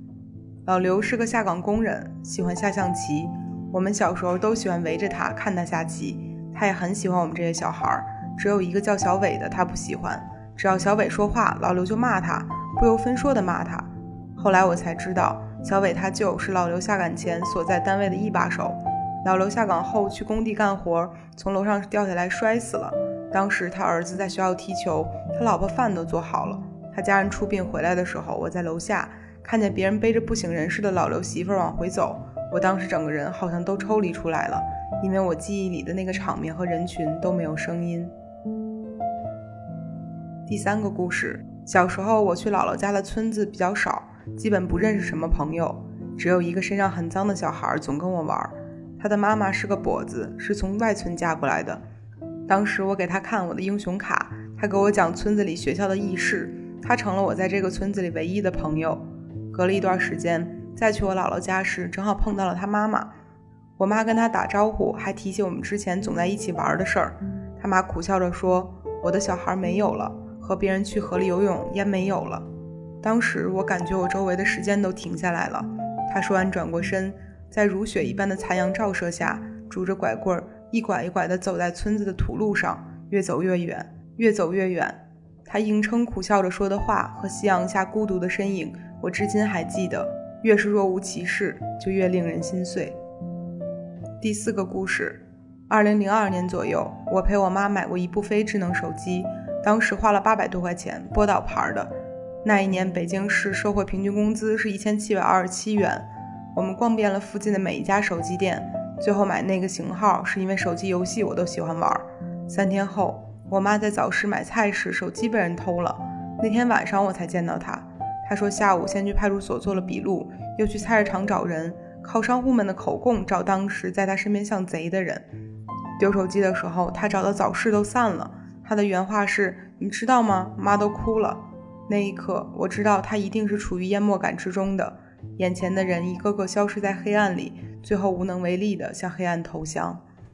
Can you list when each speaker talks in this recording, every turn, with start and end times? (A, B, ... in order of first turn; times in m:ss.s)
0:00.7-0:38.1 A
0:40.5-0:51.8 A
0:52.5-1:03.1 A
1:03.8-1:12.4 A
1:13.0-1:33.0 A
1:34.2-1:41.9 A
1:42.4-2:05.2 A
2:06.0-2:20.0 A